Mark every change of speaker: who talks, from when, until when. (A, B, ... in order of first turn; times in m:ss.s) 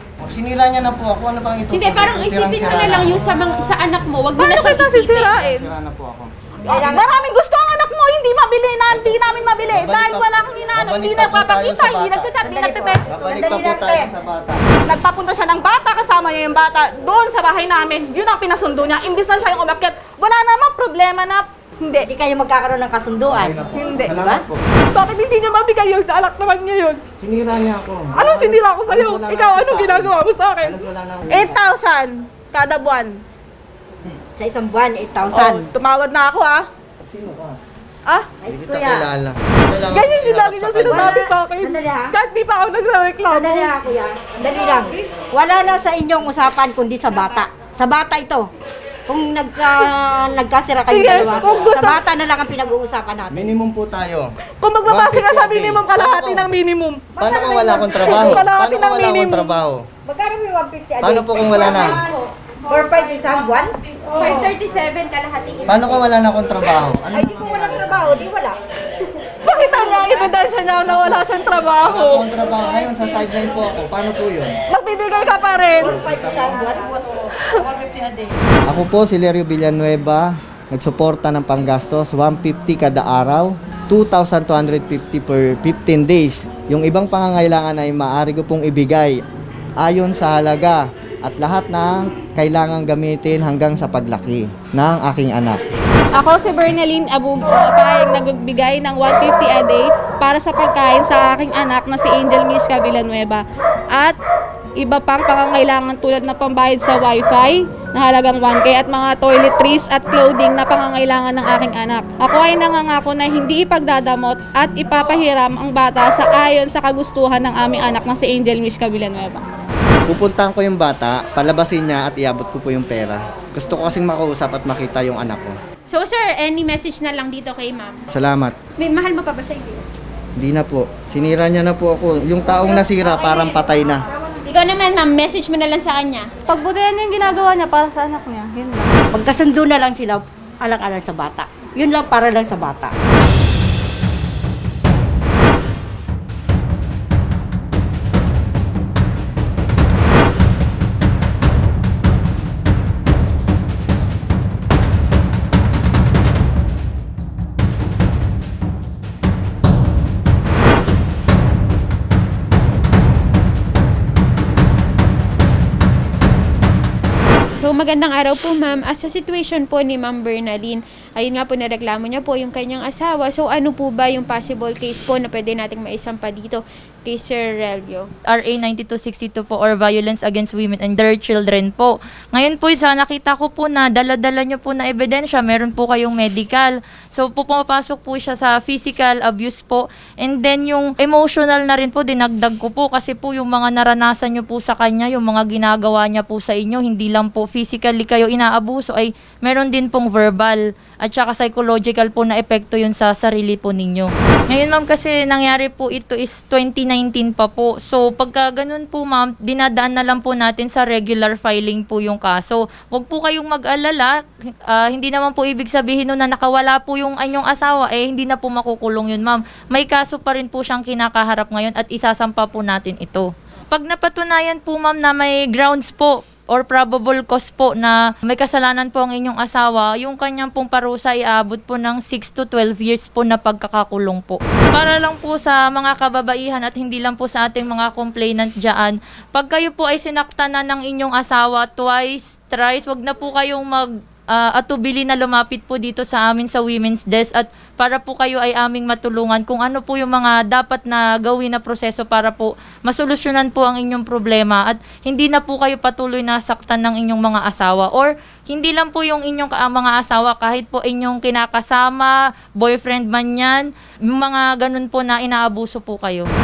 0:00.2-0:03.3 A
0:01.7-0:05.4 B
0:04.4-0:05.6 C
0:05.2-0:07.0 A
0:06.7-0:07.0 D
0:06.9-0:07.2 E
0:07.0-0:09.6 C
0:08.9-0:09.2 A
0:09.0-0:13.4 E
0:09.7-0:12.4 A
0:11.9-0:12.4 C
0:12.4-0:14.1 D
0:13.0-0:14.6 A
0:14.9-0:22.0 C
0:14.9-0:21.4 E
0:22.0-0:24.4 D
0:23.3-0:24.6 A
0:25.0-0:27.0 C
0:25.0-0:27.0 E
0:27.2-0:31.6 A
0:28.2-0:30.7 E
0:29.8-0:30.6 C
0:31.4-0:33.1 E
0:31.6-0:31.9 C
0:32.5-0:33.1 C
0:34.4-0:35.7 D
0:35.3-0:36.6 E
0:35.8-0:36.4 C
0:37.0-0:37.6 A
0:38.4-0:39.1 D
0:38.5-0:41.2 A
0:40.0-0:40.5 C
0:40.2-0:41.8 E
0:40.8-0:42.2 D
0:42.2-0:43.4 C
0:42.4-0:43.7 E
0:43.3-0:48.5 D
0:44.4-0:44.9 E
0:49.1-0:53.5 D
0:50.9-0:52.0 E
0:50.9-0:51.7 C
0:51.1-0:51.8 A
0:53.3-0:54.3 A
0:54.6-0:59.4 E
0:54.8-0:56.5 A
0:55.1-0:57.0 C
0:57.2-0:59.8 A
0:58.1-0:58.4 D
1:00.1-1:02.0 D
1:01.0-1:02.0 A
1:01.5-1:02.2 B
1:02.7-1:04.5 D
1:04.2-1:06.0 B
1:05.7-1:08.2 A
1:07.1-1:08.6 D
1:09.5-1:12.3 E
1:09.5-1:10.2 D
1:09.9-1:10.4 C
1:10.7-1:14.6 A
1:11.0-1:11.4 C
1:14.7-1:16.0 E
1:15.8-1:16.6 A
1:15.8-1:17.0 D
1:18.7-1:29.2 A
1:29.8-1:35.6 A
1:36.1-1:44.2 C
1:44.8-1:59.4 C
2:00.1-2:05.6 A
2:05.9-2:08.0 B
2:08.1-2:08.6 A
2:08.8-2:09.8 B
2:10.4-2:14.0 A
2:14.5-2:16.3 B
2:16.5-2:18.9 C
2:19.1-2:23.0 D
2:47.6-2:58.1 B
2:58.3-3:34.1 F
3:34.7-4:26.3 F